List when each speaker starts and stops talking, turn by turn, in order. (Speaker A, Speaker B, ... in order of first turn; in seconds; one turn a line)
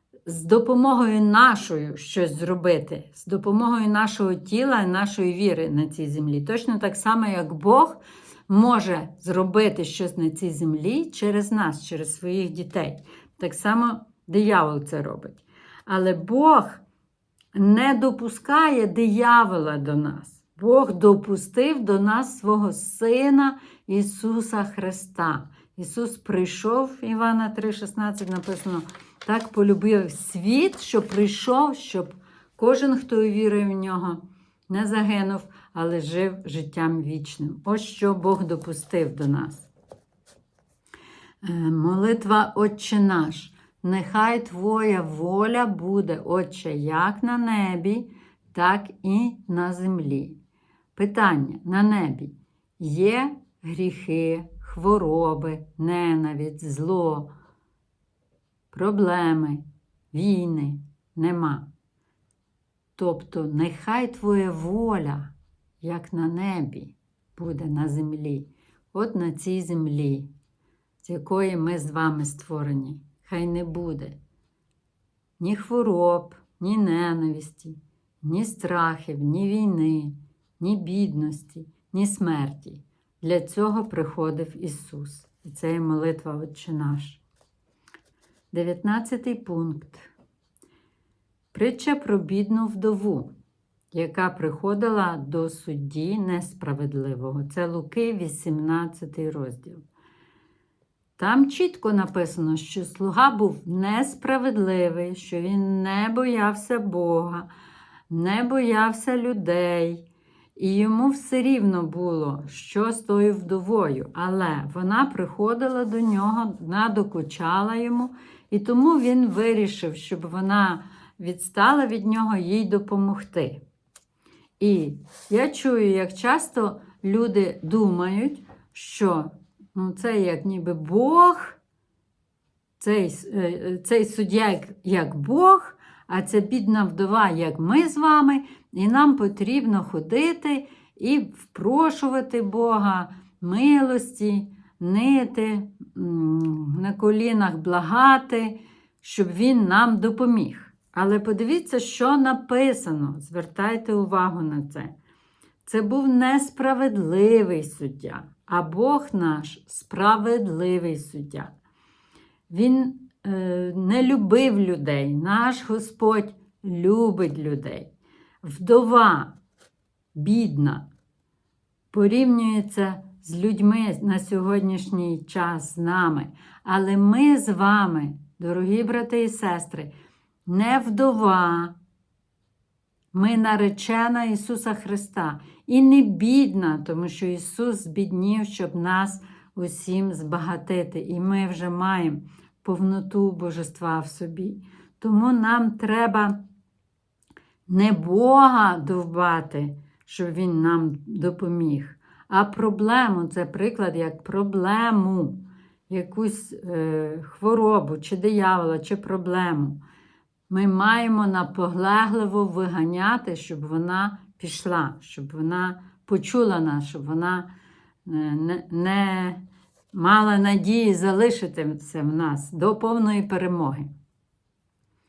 Speaker A: 0.2-16.8
Speaker A: 17.5-39.7
Speaker A: 41.4-50.4
Speaker A: 51.0-57.3
Speaker A: 58.7-61.7
Speaker A: 63.0-70.3
Speaker A: 71.0-74.2
Speaker A: 75.4-87.2
Speaker A: 88.5-90.1
Speaker A: 91.5-93.3
Speaker A: 93.9-99.8
Speaker A: 101.2-107.5
Speaker A: 108.1-110.0
Speaker A: 110.5-123.6
Speaker A: 124.6-131.6
Speaker A: 132.8-154.9
Speaker A: 155.6-161.5
Speaker A: 162.5-167.9
Speaker A: 168.4-169.3
Speaker A: 170.1-170.8
Speaker A: 171.9-179.9
Speaker A: 180.4-181.7
Speaker A: 183.1-196.4
Speaker A: 197.7-209.8
Speaker A: 210.5-217.5
Speaker A: 218.1-219.4
Speaker A: 219.9-223.9